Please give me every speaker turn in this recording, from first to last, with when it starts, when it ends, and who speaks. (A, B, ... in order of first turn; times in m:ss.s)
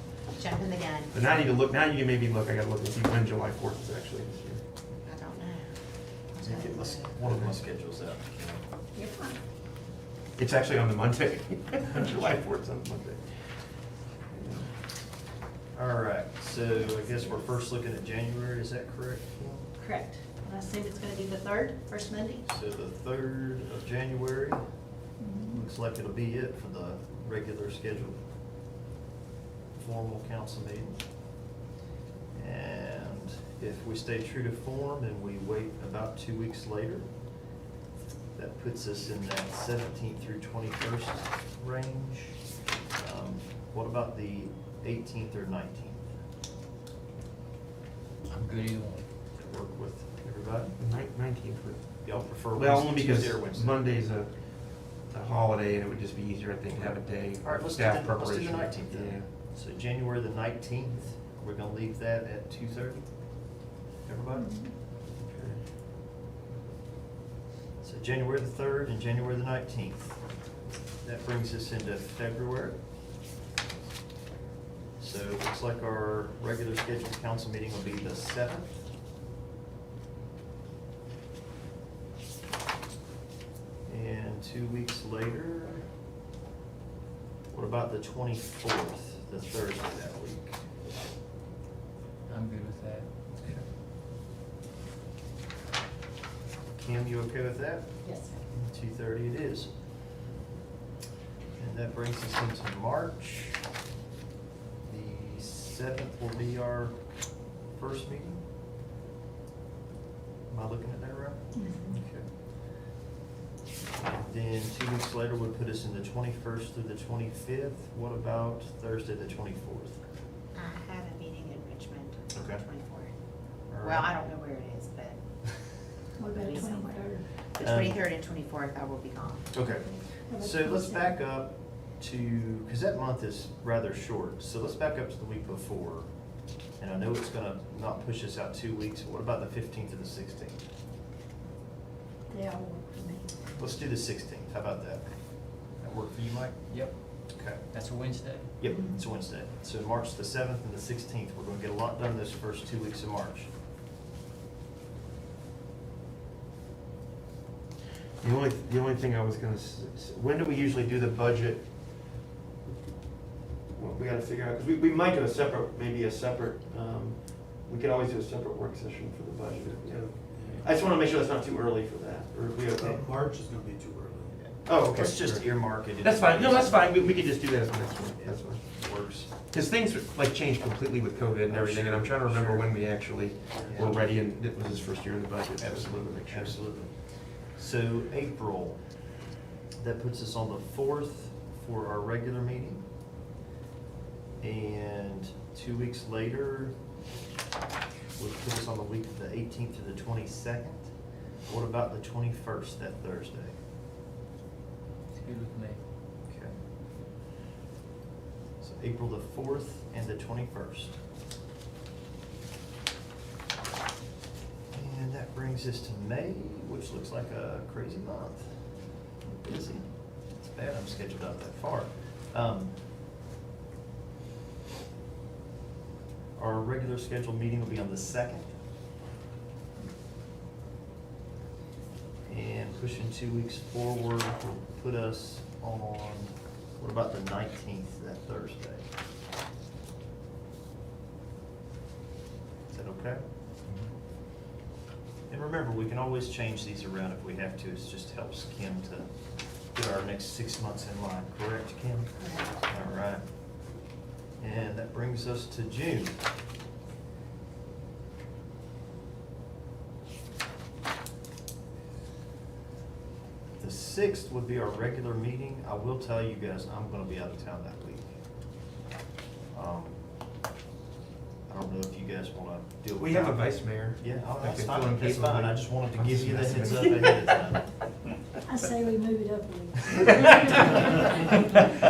0:00.2-0:01.1 A
0:01.1-0:04.6 B
0:05.0-0:05.7 A
0:06.3-0:07.1 A
0:06.4-0:08.6 C
0:07.2-0:07.6 B
0:08.9-0:09.3 A
0:10.4-0:14.7 B
0:15.7-0:19.7 C
0:19.8-0:22.4 D
0:22.4-0:24.6 C
0:25.2-0:25.6 D
0:25.5-0:28.2 C
0:29.7-0:31.0 C
0:32.3-0:37.1 C
0:38.3-0:46.1 C
0:48.3-0:49.0 E
0:49.4-0:50.8 C
0:50.8-0:59.3 B
0:52.0-0:53.8 C
0:56.7-1:04.7 C
1:04.3-1:04.7 D
1:05.2-1:05.6 B
1:07.8-1:10.2 C
1:11.0-1:12.8 C
1:15.0-1:18.7 C
1:23.8-1:25.9 C
1:27.5-1:30.6 C
1:32.3-1:33.6 E
1:36.8-1:39.7 C
1:38.0-1:38.4 A
1:41.6-1:43.6 C
1:44.8-1:47.1 C
1:47.6-1:48.4 C
1:50.5-1:52.3 C
1:51.5-1:52.0 D
1:54.0-2:00.0 C
2:00.5-2:03.1 A
2:02.3-2:02.6 C
2:03.6-2:05.2 A
2:03.7-2:04.1 C
2:06.2-2:07.2 D
2:06.2-2:09.5 A
2:07.6-2:08.0 C
2:09.5-2:16.1 C
2:10.3-2:11.1 D
2:16.7-2:20.6 C
2:22.3-2:23.3 D
2:23.6-2:27.7 C
2:26.7-2:28.5 E
2:28.6-2:33.5 C
2:38.2-2:41.6 B
2:43.7-2:53.0 B
2:50.0-2:50.6 F
2:52.8-2:54.3 F
2:54.3-2:57.2 C
2:54.6-2:58.7 B
2:58.2-2:59.3 C
2:59.3-3:06.6 B
3:01.5-3:02.9 C
3:03.5-3:03.8 F
3:03.7-3:04.0 C
3:06.2-3:09.1 C
3:09.8-3:12.8 C
3:14.4-3:16.8 C
3:18.2-3:23.5 C
3:25.2-3:25.8 E
3:26.3-3:26.6 C
3:28.6-3:30.9 C
3:34.7-3:38.6 C
3:39.3-3:42.8 C
3:46.3-3:48.5 C
3:52.2-3:58.8 C
4:02.7-4:03.2 C
4:05.3-4:13.7 C
4:12.2-4:12.6 A
4:14.4-4:16.2 C
4:23.6-4:28.1 C
4:29.5-4:30.0 C
4:31.5-4:37.7 C
4:33.0-4:37.2 B
4:38.5-4:40.3 D
4:40.5-4:40.8 B